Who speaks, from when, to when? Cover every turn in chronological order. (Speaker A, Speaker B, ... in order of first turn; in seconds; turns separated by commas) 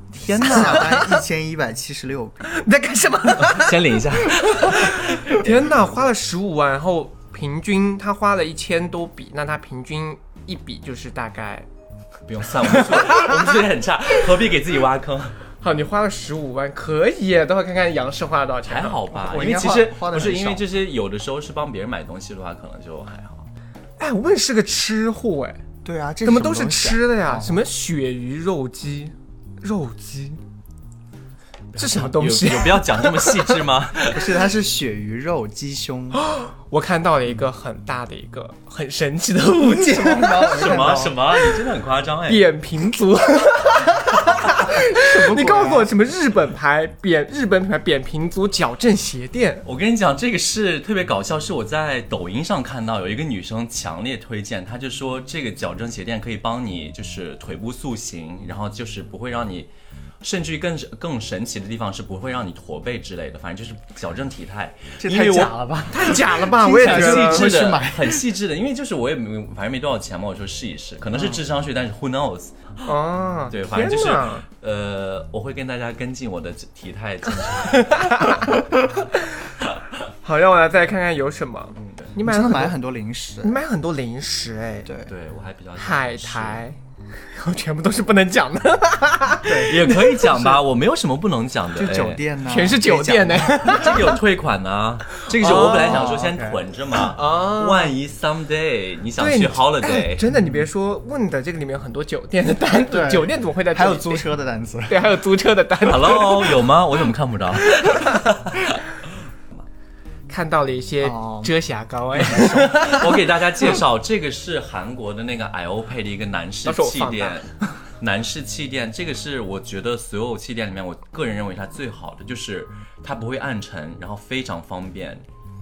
Speaker A: 0.1-2.5, Speaker B: 0.3-1.2, Speaker B: 2.4-11.7, Speaker C: 3.4-5.7, Speaker C: 12.3-15.3, Speaker B: 12.7-13.5, Speaker B: 15.6-19.1, Speaker C: 18.6-23.5, Speaker A: 19.1-20.6, Speaker B: 24.0-25.6, Speaker A: 25.8-27.6, Speaker B: 26.2-30.4, Speaker C: 31.7-34.2, Speaker B: 31.8-33.6, Speaker A: 34.1-36.2, Speaker B: 36.2-40.9, Speaker A: 39.6-41.2, Speaker C: 40.5-42.4, Speaker B: 42.3-49.6, Speaker A: 44.4-45.9, Speaker C: 49.6-59.7, Speaker C: 60.2-65.5, Speaker A: 65.0-68.3, Speaker B: 65.9-67.5, Speaker C: 66.7-72.8, Speaker B: 72.8-74.5, Speaker C: 73.5-78.4, Speaker B: 77.6-82.7, Speaker C: 81.7-82.1, Speaker A: 82.2-83.6, Speaker B: 83.4-84.9, Speaker A: 84.8-85.1, Speaker C: 85.0-86.6, Speaker B: 85.8-90.4, Speaker A: 89.4-90.6, Speaker C: 89.7-92.2, Speaker A: 91.7-93.8, Speaker B: 92.4-94.2, Speaker C: 93.6-100.2, Speaker B: 95.3-96.1, Speaker A: 95.6-96.6, Speaker B: 97.0-97.9, Speaker B: 99.2-104.3, Speaker A: 102.9-105.0, Speaker B: 104.9-106.6, Speaker C: 105.8-108.8, Speaker B: 107.8-108.2, Speaker B: 110.3-113.2, Speaker A: 111.0-111.5, Speaker C: 112.3-125.2, Speaker B: 116.7-117.5